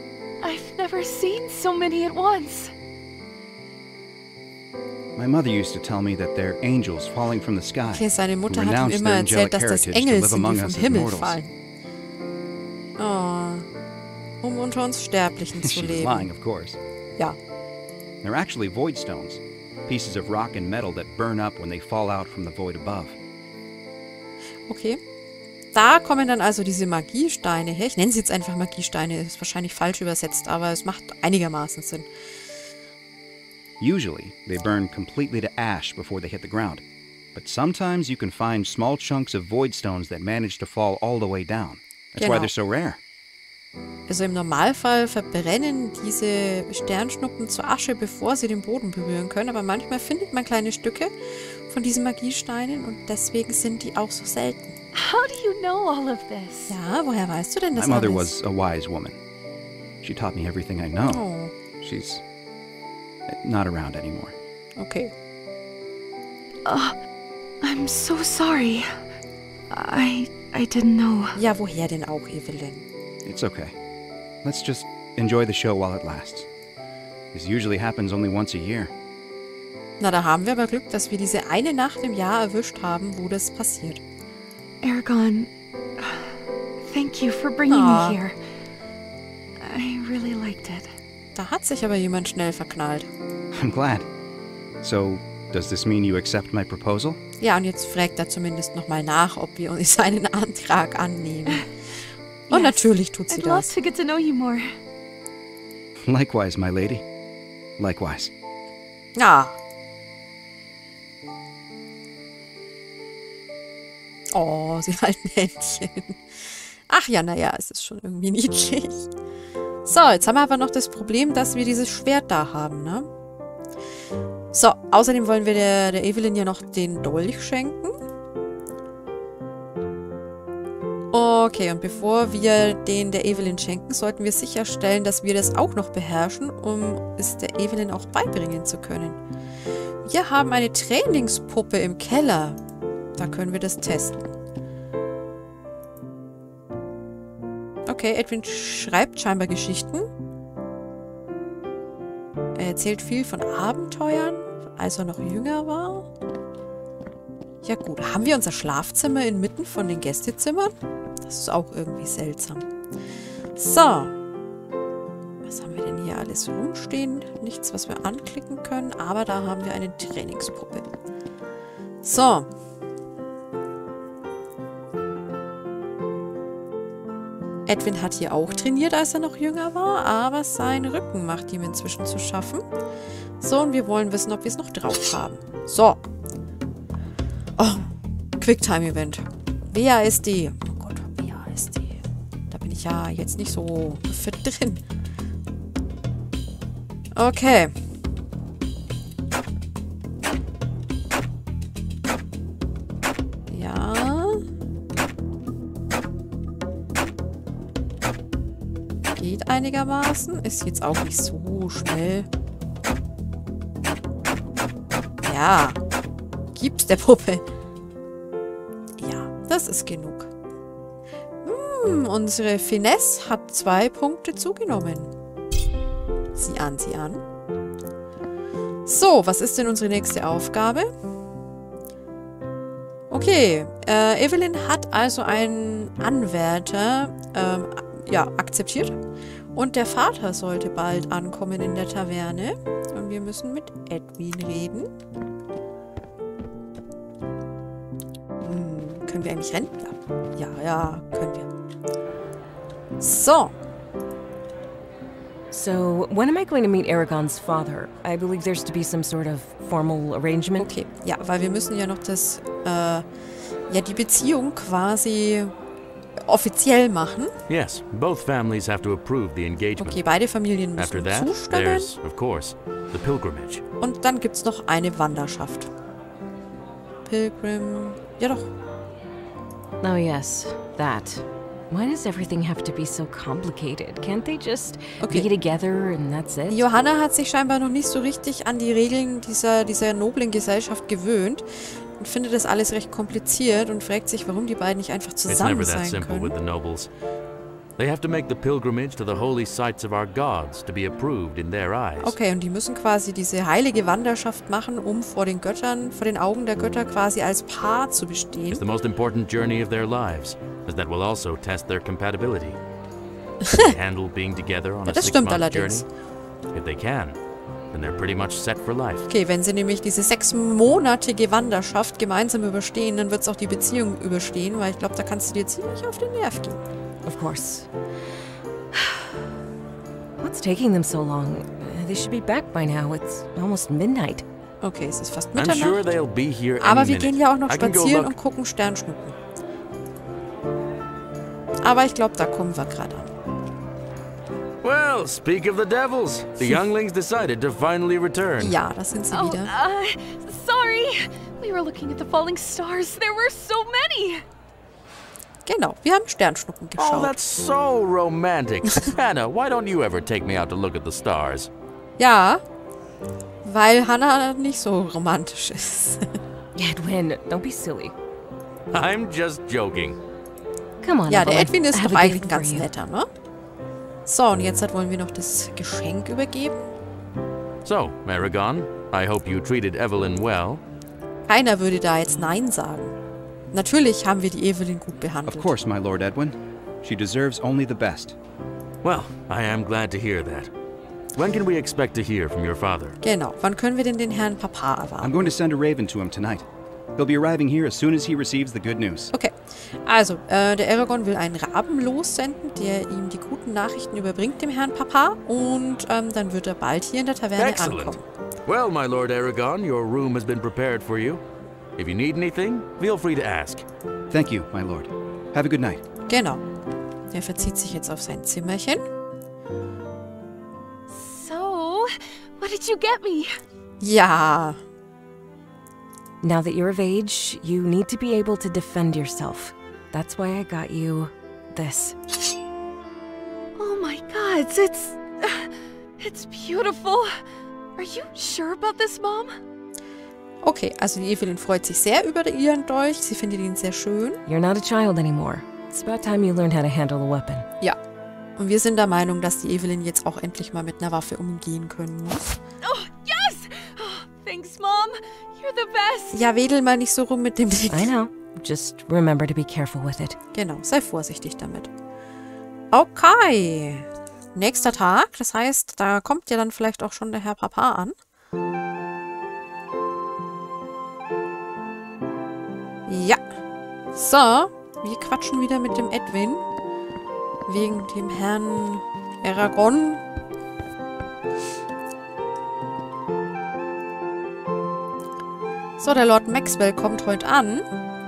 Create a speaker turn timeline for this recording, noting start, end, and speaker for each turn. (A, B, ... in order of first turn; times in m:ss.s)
0:00.4-0:02.7 A
0:05.2-0:11.4 B
0:07.9-0:11.5 C
0:13.0-0:13.7 C
0:14.4-0:16.3 C
0:15.6-0:16.8 B
0:18.2-0:23.2 B
0:24.7-0:25.0 C
0:25.7-0:32.1 C
0:33.8-0:36.8 B
0:37.3-0:43.0 B
0:42.2-0:42.5 C
0:44.1-0:54.8 C
0:54.9-0:56.7 A
0:56.7-0:58.3 C
0:57.7-0:59.2 B
1:00.0-1:01.2 B
1:01.0-1:01.5 C
1:01.7-1:02.2 B
1:03.3-1:04.3 B
1:04.8-1:05.1 C
1:06.6-1:07.0 A
1:07.6-1:09.0 A
1:09.7-1:11.4 A
1:11.4-1:12.8 C
1:13.2-1:13.7 B
1:14.4-1:16.5 B
1:17.3-1:18.9 B
1:20.0-1:24.0 C
1:24.8-1:28.4 A
1:27.7-1:28.2 C
1:29.6-1:30.9 A
1:31.3-1:33.1 C
1:33.5-1:34.1 B
1:34.8-1:37.2 B
1:37.4-1:41.7 C
1:42.5-1:44.7 A
1:42.5-1:43.7 C
1:46.0-1:47.0 B
1:47.8-1:48.3 B
1:49.2-1:49.6 C
1:54.3-1:59.1 C
1:59.8-2:03.1 C
2:04.5-2:07.9 C
2:11.1-2:19.2 C
2:20.0-2:22.6 C
2:23.1-2:24.3 C
2:27.8-2:30.1 C
2:32.5-2:36.1 C
2:37.6-2:42.7 C
2:43.6-2:44.1 C
2:45.4-2:50.9 C
2:52.0-2:52.5 C
2:57.6-3:02.6 C
3:03.4-3:06.0 C
3:07.6-3:14.8 C
3:17.1-3:17.7 C
3:23.5-3:24.4 C
3:29.0-3:32.3 C
3:35.2-3:35.8 C
3:36.5-3:37.4 C
3:39.0-3:40.3 C
3:41.4-3:45.1 C
3:46.4-3:47.2 C
3:48.8-3:50.9 C
3:53.1-3:59.0 C
3:59.5-4:04.9 C
4:08.4-4:11.5 C
4:13.0-4:13.6 C
4:15.5-4:20.7 D
4:20.6-4:23.0 C
4:23.7-4:25.5 C
4:26.2-4:27.3 C
4:27.5-4:30.0 E
4:29.8-4:31.9 C
4:30.8-4:33.6 E
4:33.8-4:35.7 C
4:37.0-4:38.5 C
4:39.8-4:46.6 D
4:45.0-4:45.3 C
4:46.5-4:51.4 C
4:52.0-4:56.3 C
4:55.3-4:56.9 E
4:57.8-5:02.2 E
5:02.0-5:08.6 C
5:08.5-5:12.6 E
5:13.4-5:13.7 C
5:13.5-5:15.8 E
5:14.8-5:15.8 C
5:16.5-5:17.2 E
5:17.7-5:19.1 E
5:19.1-5:26.6 C
5:27.0-5:27.7 D
5:28.7-5:29.1 D
5:30.2-5:34.2 D
5:34.6-5:35.8 C
5:35.4-5:38.1 E
5:36.6-5:39.2 C
5:41.6-5:43.1 C
5:44.6-5:48.6 E
5:48.4-5:49.5 C
5:49.1-5:54.2 A
5:55.4-5:57.1 C
5:56.8-6:01.5 E
6:02.0-6:02.4 C
6:03.4-6:06.2 C
6:06.6-6:07.9 D
6:08.7-6:10.0 E
6:10.8-6:12.7 D
6:11.1-6:13.1 C
6:14.0-6:16.7 C
6:17.6-6:20.6 E
6:21.3-6:23.0 C
6:23.5-6:25.5 C
6:25.2-6:28.2 B
6:28.8-6:30.5 E
6:31.2-6:33.0 E
6:33.0-6:35.3 C
6:35.0-6:39.1 B
6:39.1-6:48.0 C
6:47.4-6:51.2 E
6:51.8-6:53.6 E
6:54.1-6:55.8 B
6:56.1-6:56.4 C
6:57.1-6:58.8 C
7:00.9-7:03.4 A
7:03.8-7:04.6 C
7:06.2-7:12.0 D
7:13.6-7:17.1 A
7:17.8-7:19.3 A
7:20.4-7:24.2 C
7:24.3-7:27.5 D
7:28.4-7:32.4 C
7:32.6-7:36.2 A
7:36.1-7:37.9 C
7:37.7-7:40.2 D
7:40.3-7:41.7 C
7:42.7-7:47.9 C
7:52.8-7:53.2 C
7:53.9-7:56.5 C
7:57.4-8:00.0 C
8:05.8-8:07.6 C